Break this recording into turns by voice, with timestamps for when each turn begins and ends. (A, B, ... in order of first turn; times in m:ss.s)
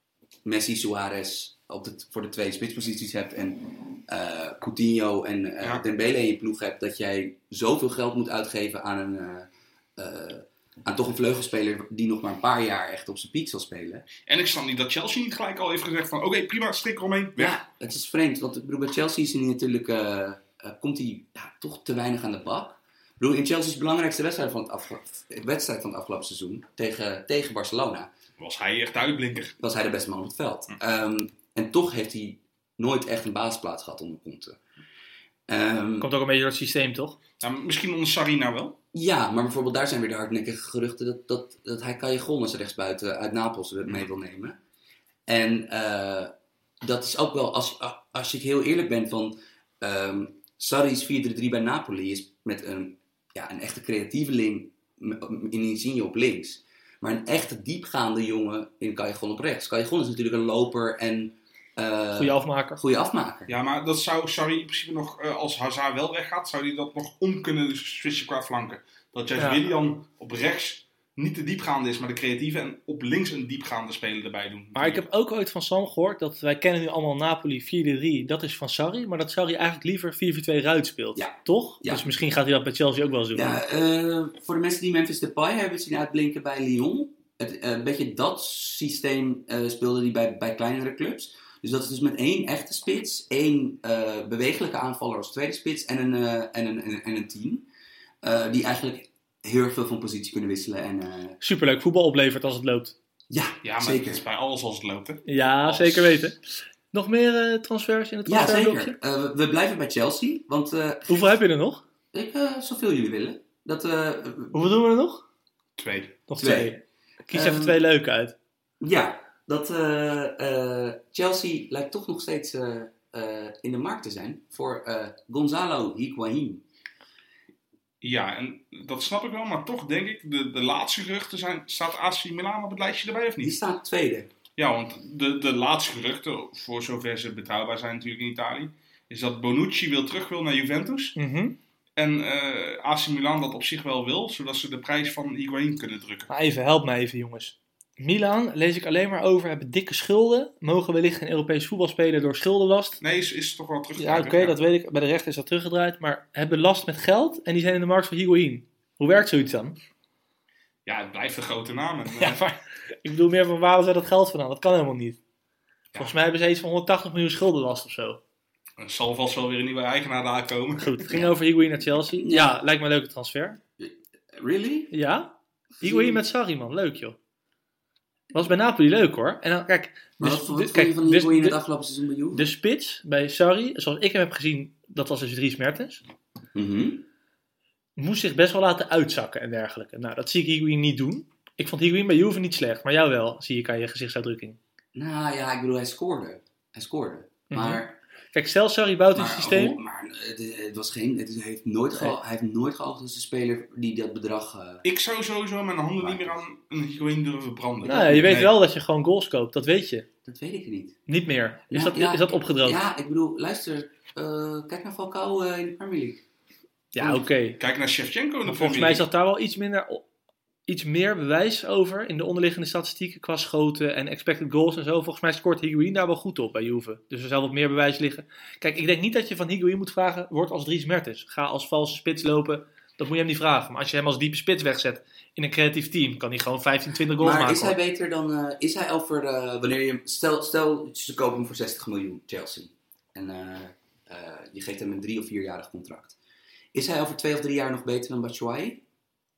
0:00.4-0:14.1 A
0:14.3-0:17.6 B
0:17.4-0:28.1 A
0:28.4-0:29.6 B
0:29.6-0:34.6 A
0:35.5-0:36.1 A
0:36.0-0:37.2 C
0:37.4-0:38.8 B
0:38.9-0:44.6 A
0:45.3-0:46.3 A
0:46.8-1:03.6 A
1:02.2-1:02.8 C
1:03.5-1:15.0 B
1:09.4-1:09.6 C
1:14.8-1:23.6 C
1:21.2-1:22.1 A
1:23.3-1:37.6 A
1:38.2-1:41.4 A
1:41.4-1:42.9 C
1:43.3-1:44.2 A
1:43.6-1:46.3 B
1:45.2-1:49.0 C
1:48.2-1:51.3 A
1:51.1-1:51.8 C
1:52.1-1:54.5 A
1:54.5-1:55.2 C
1:55.8-1:56.2 B
1:56.3-1:58.3 C
1:56.4-1:56.8 A
1:57.3-1:57.8 A
1:58.8-2:06.6 A
2:08.0-2:13.6 B
2:13.4-2:14.3 A
2:14.6-2:21.2 B
2:21.2-2:21.6 C
2:22.0-2:26.3 B
2:26.3-2:33.0 C
2:33.0-2:34.6 B
2:34.0-2:39.8 C
2:40.8-2:42.4 B
2:42.2-2:45.2 C
2:46.0-2:48.2 C
2:48.8-2:51.0 B
2:50.8-2:53.6 C
2:52.1-2:52.6 A
2:53.8-2:54.9 A
2:54.9-2:57.2 C
2:55.8-2:56.2 A
2:58.3-3:01.6 C
3:00.2-3:02.5 A
3:02.3-3:06.0 C
3:06.5-3:07.0 A
3:08.0-3:14.6 C
3:14.9-3:18.0 A
3:17.5-3:17.8 C
3:18.3-3:19.8 C
3:19.1-3:24.8 A
3:24.8-3:28.5 B
3:26.0-3:26.4 A
3:27.8-3:30.1 C
3:30.2-3:31.0 A
3:31.1-3:32.8 C
3:31.7-3:36.2 A
3:36.9-3:37.6 C
3:37.6-3:39.0 B
3:38.4-3:40.0 C
3:40.7-3:57.8 C
3:57.2-4:06.2 A
4:06.7-4:08.8 A